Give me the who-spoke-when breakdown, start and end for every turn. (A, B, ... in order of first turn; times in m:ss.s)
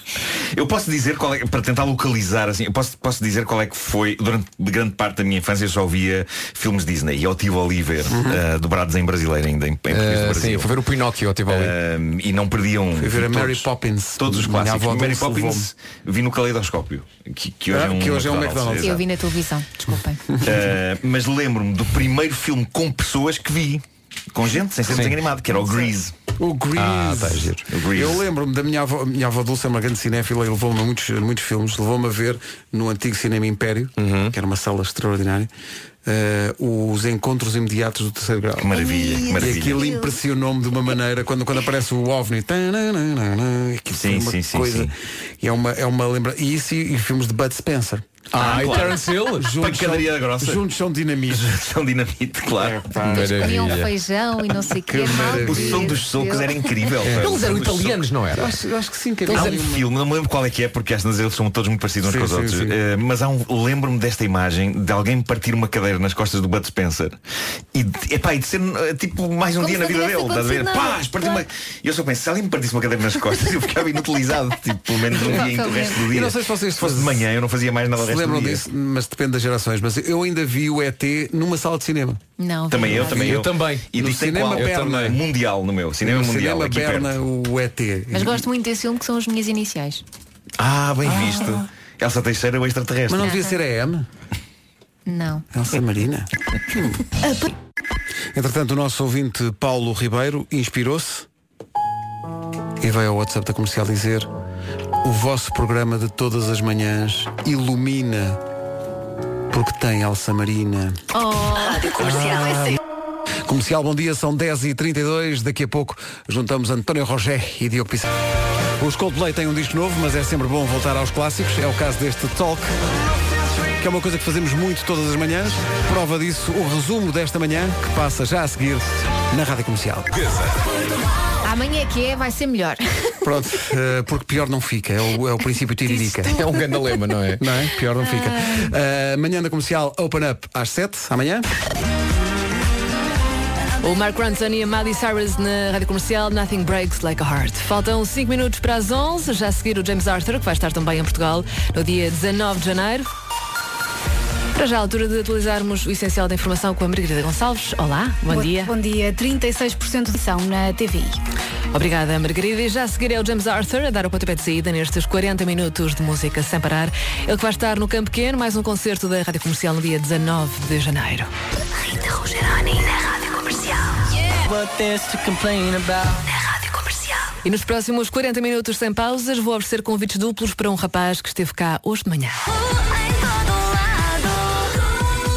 0:00.5-0:10.7 A
0:08.1-0:08.4 B
0:09.9-0:11.8 C
0:11.5-0:13.7 A
0:13.0-0:15.7 B
0:14.2-0:19.0 A
0:17.7-0:19.0 B
0:18.8-0:20.2 D
0:20.4-0:26.1 A
0:24.9-0:25.2 C
0:25.6-0:25.9 D
0:26.4-0:35.5 B
0:26.8-0:27.5 C
0:27.7-0:28.2 A
0:34.0-0:34.3 C
0:36.0-0:48.8 B
0:38.6-0:39.9 A
0:38.8-0:40.1 D
0:43.9-0:44.9 A
0:48.3-0:49.5 C
0:48.3-0:50.6 A
0:49.4-0:51.5 B
0:51.3-0:52.9 A
0:52.6-0:53.6 B
0:52.9-0:53.9 C
0:53.1-0:56.9 D
0:54.9-0:56.1 B
0:55.1-0:58.0 A
0:57.0-0:57.6 B
0:57.2-0:58.5 C
0:58.3-0:59.9 B
0:59.3-1:07.2 A
0:59.3-0:59.6 C
1:02.0-1:02.8 B
1:07.7-1:18.6 A
1:09.6-1:11.4 D
1:15.1-1:16.0 D
1:15.2-1:17.3 B
1:17.9-1:22.2 B
1:22.4-1:23.2 D
1:22.7-1:27.1 A
1:22.8-1:23.4 B
1:22.9-1:23.9 C
1:23.9-1:25.2 B
1:24.5-1:25.2 C
1:26.0-1:28.5 B
1:28.1-1:30.0 D
1:30.6-1:33.3 A
1:31.0-1:31.6 B
1:33.1-1:34.1 B
1:33.2-1:33.6 D
1:35.0-1:35.4 D
1:35.5-1:37.0 B
1:38.3-1:41.3 B
1:42.8-1:44.3 B
1:45.0-1:48.4 B
1:49.5-1:51.0 B
1:51.2-1:52.1 D
1:52.0-1:52.8 B
1:53.4-1:58.1 B
1:58.8-2:02.7 B
2:03.8-2:10.1 B
2:11.4-2:13.1 D
2:13.2-2:16.4 B
2:15.9-2:17.4 C
2:17.4-2:21.5 B
2:23.8-2:33.1 E
2:34.5-2:38.7 E
2:38.3-2:41.2 F
2:41.7-2:51.3 E
2:54.4-2:56.4 G
2:57.4-3:02.4 E